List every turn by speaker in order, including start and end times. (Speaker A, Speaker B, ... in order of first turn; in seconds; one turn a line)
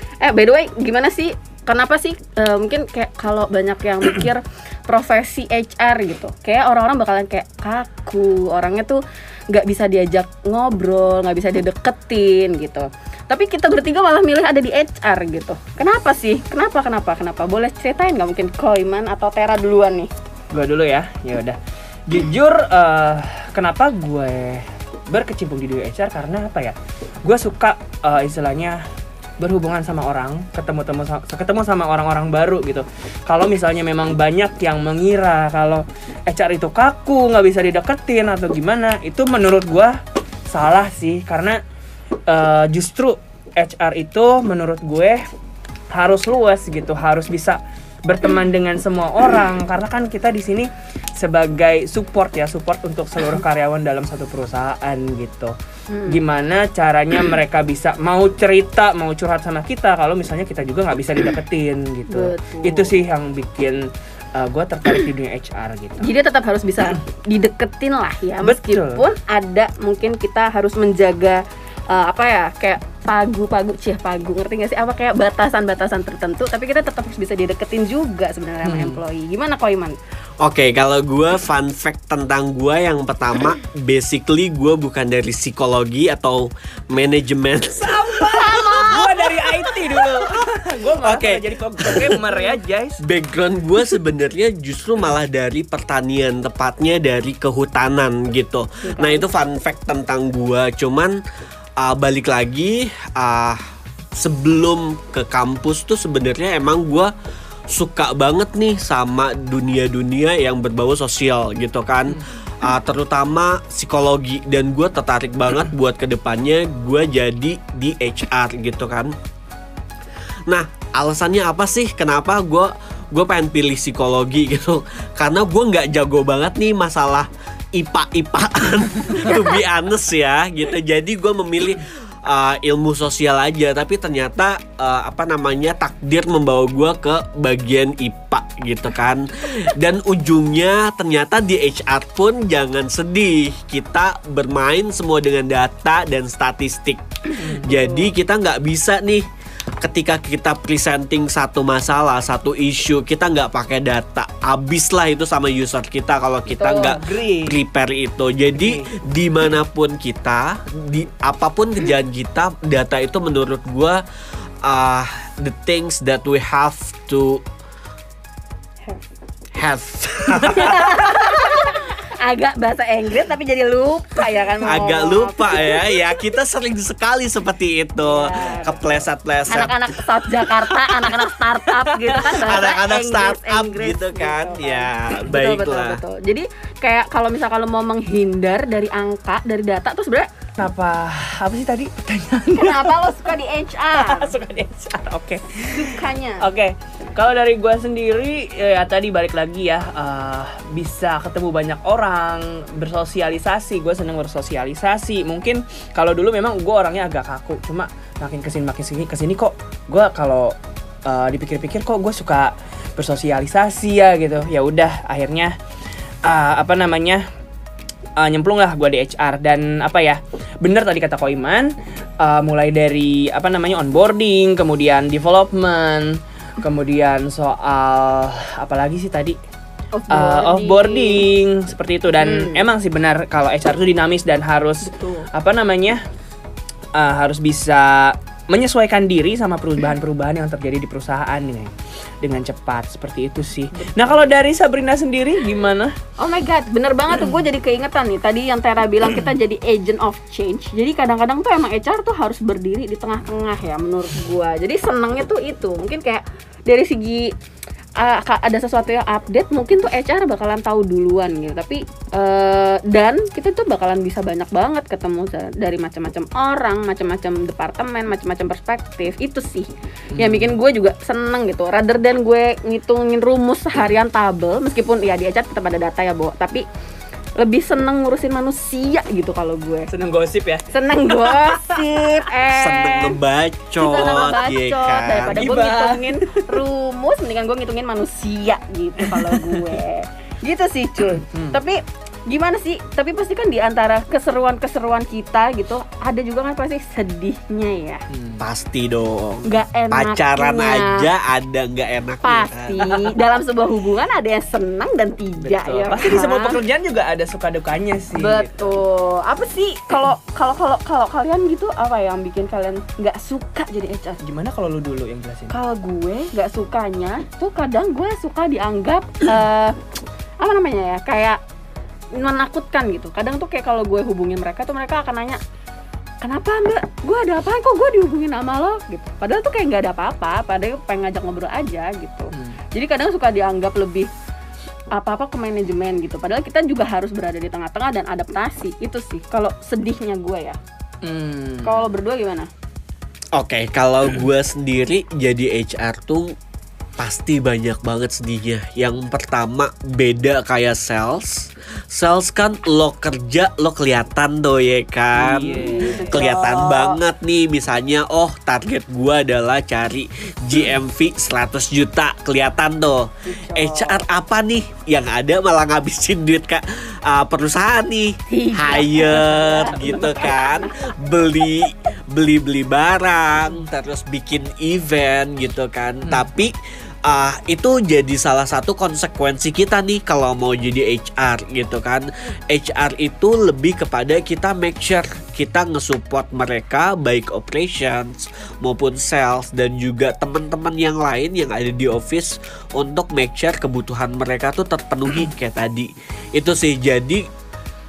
Speaker A: 0.2-20.1
Speaker B: 20.5-28.8
Speaker B: 29.4-41.6
Speaker B: 42.3-45.2
Speaker B: 45.9-55.5
Speaker A: 55.9-56.2
Speaker B: 56.1-66.1
Speaker A: 62.1-63.0
Speaker A: 66.0-80.0
Speaker B: 68.4-69.0
Speaker B: 78.6-79.0
Speaker C: 80.4-90.3
Speaker B: 88.0-93.0
Speaker C: 91.0-92.2
Speaker C: 93.0-101.2
Speaker A: 98.8-99.3
Speaker C: 101.8-103.6
Speaker C: 104.2-107.1
Speaker C: 107.7-119.1
Speaker C: 120.5-149.2
Speaker B: 147.4-147.8
Speaker A: 147.6-148.1
Speaker C: 149.8-164.0
Speaker A: 156.5-157.0
Speaker B: 156.9-157.6
Speaker B: 158.5-158.9
Speaker C: 164.6-167.4
Speaker C: 169.6-170.8
Speaker A: 170.5-176.2
Speaker C: 174.6-179.8
Speaker A: 178.0-190.3
Speaker C: 180.4-181.2
Speaker B: 181.9-182.4
Speaker C: 182.2-186.0
Speaker B: 190.6-193.3
Speaker A: 192.5-194.4
Speaker B: 193.9-215.6
Speaker A: 195.6-196.5
Speaker B: 216.2-217.2
Speaker B: 218.2-229.4
Speaker A: 229.9-231.3
Speaker B: 230.1-236.0
Speaker A: 232.2-232.7
Speaker A: 234.8-235.3
Speaker B: 236.9-246.0
Speaker A: 243.7-244.3
Speaker A: 246.2-257.3
Speaker A: 258.0-276.6
Speaker B: 270.1-270.6
Speaker A: 277.4-279.9
Speaker B: 279.9-281.8
Speaker A: 280.7-283.2
Speaker C: 282.5-285.5
Speaker A: 283.8-298.0
Speaker B: 285.3-286.6
Speaker B: 289.0-289.8
Speaker B: 291.3-291.6
Speaker B: 298.1-298.4
Speaker C: 298.4-302.8
Speaker A: 299.5-301.1
Speaker A: 302.2-306.6
Speaker B: 302.9-303.1
Speaker B: 305.4-308.8
Speaker A: 308.2-314.2
Speaker B: 314.2-315.5
Speaker A: 315.5-319.8
Speaker A: 320.4-321.4
Speaker A: 322.2-325.4
Speaker A: 326.2-334.1
Speaker A: 334.9-340.6
Speaker B: 341.0-341.9
Speaker A: 341.6-342.5
Speaker C: 343.3-346.4
Speaker C: 347.0-376.6
Speaker B: 355.1-356.3
Speaker A: 355.6-357.0
Speaker A: 363.3-364.0
Speaker A: 368.3-370.9
Speaker C: 377.1-397.3